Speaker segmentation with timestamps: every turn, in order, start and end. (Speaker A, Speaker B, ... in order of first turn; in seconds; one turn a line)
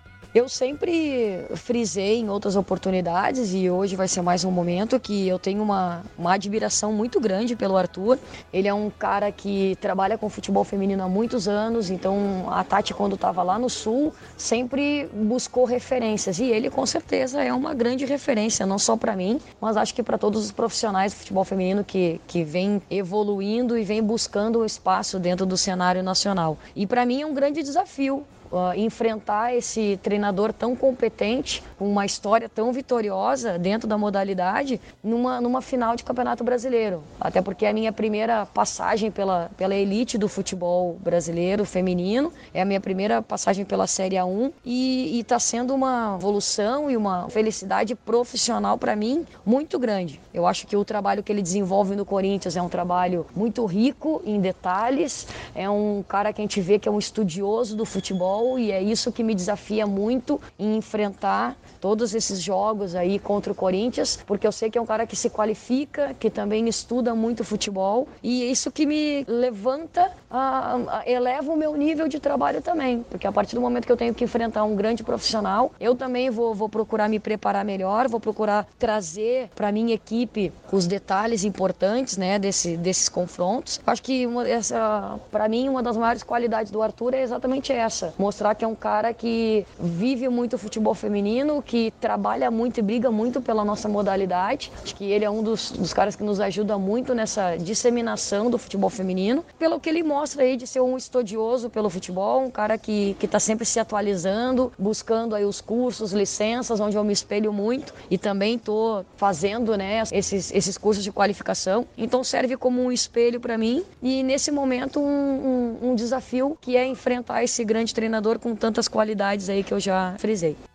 Speaker A: 0.3-120.6